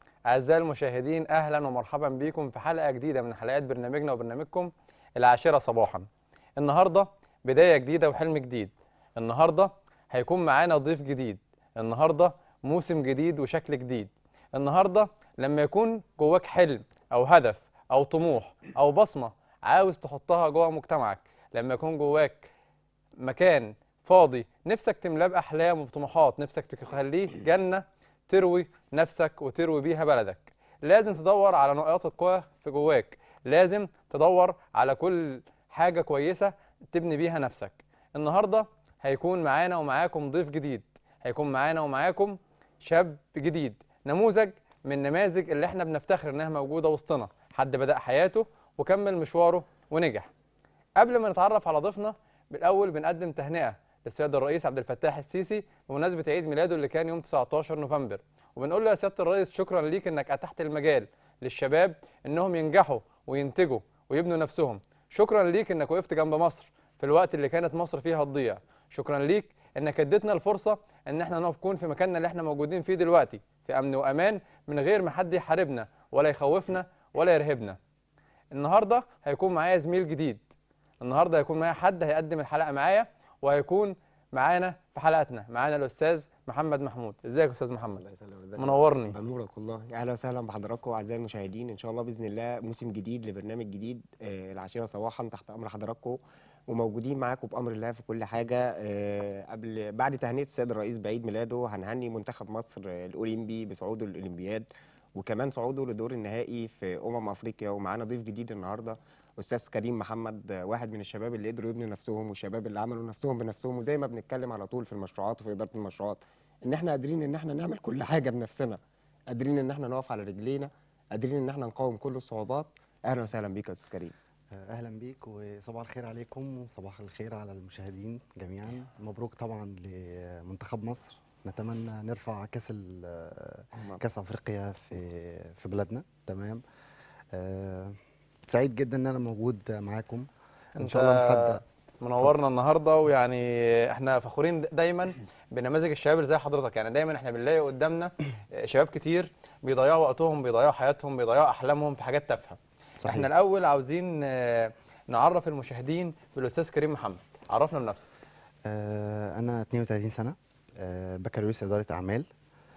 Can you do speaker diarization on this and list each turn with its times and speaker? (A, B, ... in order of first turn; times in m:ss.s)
0:00.3-0:06.1 A
0:06.6-0:22.5 A
0:23.2-0:50.3 A
0:51.0-1:17.8 A
1:18.5-1:20.4 A
1:21.0-1:28.0 A
1:28.0-1:58.8 B
1:28.6-1:29.2 A
1:59.3-2:04.1 B
2:04.5-2:16.6 C
2:13.8-2:14.0 B
2:17.3-2:18.0 C
2:18.5-2:20.3 C
2:20.8-2:38.0 A
2:20.8-2:21.6 C
2:33.0-2:33.3 C
2:38.7-2:42.3 C